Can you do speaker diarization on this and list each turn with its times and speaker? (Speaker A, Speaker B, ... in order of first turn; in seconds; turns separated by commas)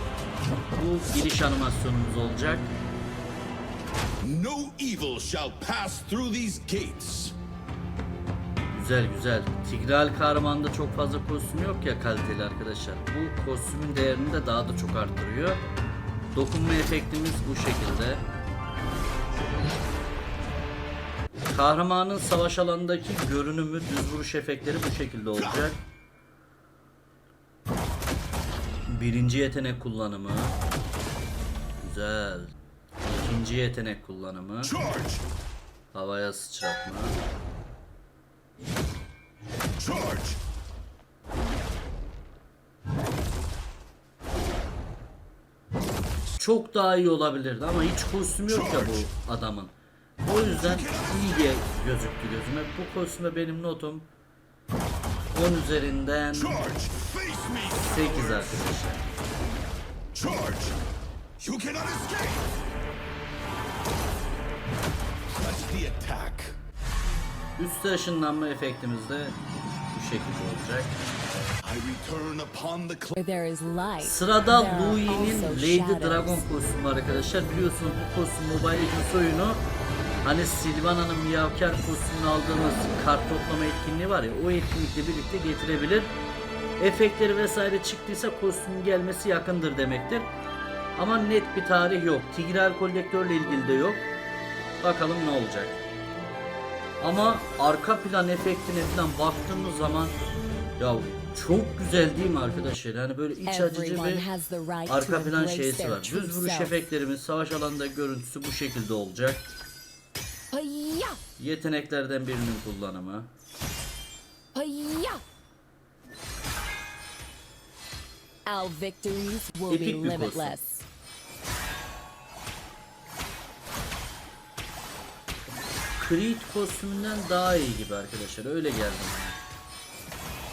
Speaker A: 0.7-2.7, Speaker B: 4.2-7.4, Speaker A: 8.7-15.6, Speaker A: 16.3-18.2, Speaker A: 21.5-25.8, Speaker A: 28.9-30.6, Speaker A: 31.8-32.5, Speaker A: 33.1-34.7, Speaker B: 34.6-35.2, Speaker A: 35.9-37.2, Speaker B: 39.8-40.4, Speaker A: 46.4-54.1, Speaker B: 48.5-49.1, Speaker B: 50.4-51.3, Speaker A: 55.3-56.6, Speaker B: 56.3-58.7, Speaker A: 57.8-59.0, Speaker B: 60.1-60.8, Speaker B: 61.4-62.5, Speaker B: 65.3-66.6, Speaker A: 67.6-69.4, Speaker A: 69.9-71.0, Speaker B: 71.6-73.1, Speaker C: 73.1-76.5, Speaker A: 74.0-79.6, Speaker A: 80.2-86.1, Speaker A: 86.8-90.3, Speaker A: 91.0-94.1, Speaker A: 94.8-95.8, Speaker A: 97.0-100.2, Speaker A: 100.8-104.2, Speaker C: 103.4-106.8, Speaker A: 104.9-109.5, Speaker C: 110.5-111.2, Speaker A: 111.4-113.3, Speaker C: 114.5-115.2, Speaker C: 118.5-120.8, Speaker A: 119.7-120.6, Speaker A: 126.0-129.4